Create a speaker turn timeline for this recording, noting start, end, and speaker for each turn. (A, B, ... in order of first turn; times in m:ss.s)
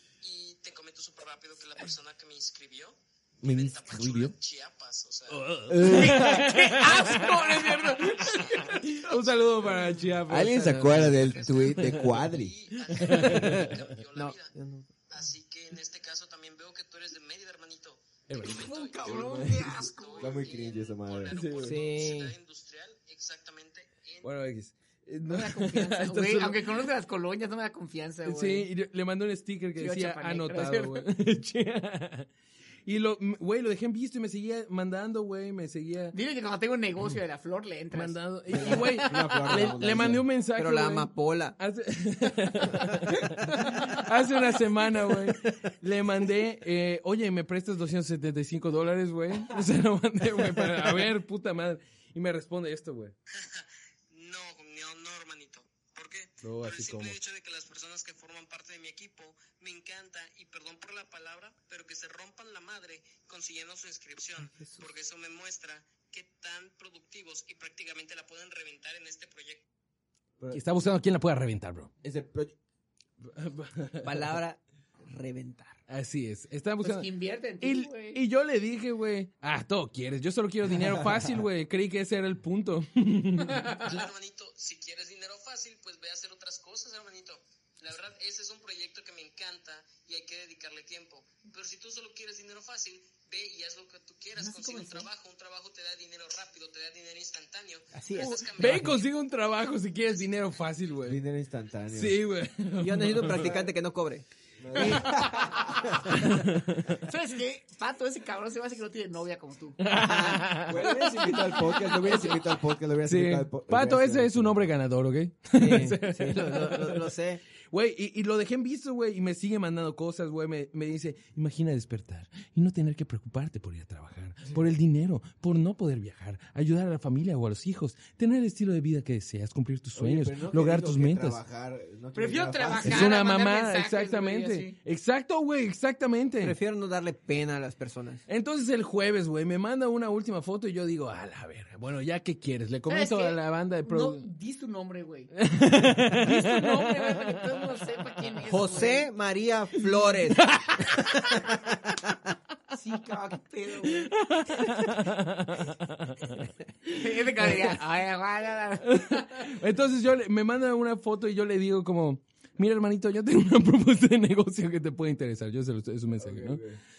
0:00.2-0:05.6 A
0:03.4-0:04.3 B
0:05.3-0:12.2 C
0:05.7-0:06.5 B
0:05.8-0:08.8 D
0:08.0-0:09.6 A
0:10.3-0:12.5 B
0:10.9-0:14.6 A
0:12.9-0:13.7 C
0:14.2-0:14.9 E
0:15.1-0:24.3 A
0:18.3-0:19.6 C
0:18.7-0:20.4 D
0:20.2-0:21.5 B
0:21.3-0:21.8 C
0:21.6-0:22.4 E
0:24.2-0:26.7 C
0:25.3-0:28.7 D
0:28.3-0:32.3 C
0:29.8-0:31.0 D
0:32.9-0:36.2 C
0:36.1-0:38.2 D
0:37.9-0:53.1 C
0:38.5-0:40.3 B
0:40.6-0:41.6 E
0:53.4-1:09.6 A
0:56.4-0:57.2 C
1:04.5-1:04.8 E
1:10.5-1:11.9 C
1:12.0-1:12.6 B
1:13.2-1:14.4 C
1:14.0-1:15.8 E
1:15.9-1:17.1 C
1:16.8-1:18.2 D
1:17.6-1:23.8 C
1:23.7-1:39.1 A
1:34.4-1:35.1 D
1:37.9-1:39.0 E
1:38.2-1:41.2 C
1:40.1-1:40.5 A
1:41.0-1:42.2 B
1:41.9-1:43.6 C
1:42.8-1:44.2 E
1:44.6-1:46.2 B
1:44.8-1:45.9 D
1:46.1-1:46.9 C
1:47.0-1:49.8 D
1:49.8-1:51.1 C
1:50.0-1:50.5 E
1:50.6-1:54.7 B
1:51.0-1:52.3 D
1:52.0-1:52.3 C
1:53.0-1:57.1 C
1:55.6-1:57.4 E
1:57.7-2:11.4 C
2:10.0-2:13.2 B
2:12.2-2:14.8 D
2:12.8-2:16.6 C
2:16.4-2:18.2 E
2:18.3-2:24.3 C
2:22.9-2:25.3 D
2:25.4-2:27.8 C
2:26.2-2:29.1 D
2:28.5-2:31.7 E
2:30.4-2:31.1 C
2:32.7-2:34.1 D
2:33.9-2:36.5 C
2:36.9-2:39.5 D
2:38.8-2:46.6 C
2:46.2-2:46.8 B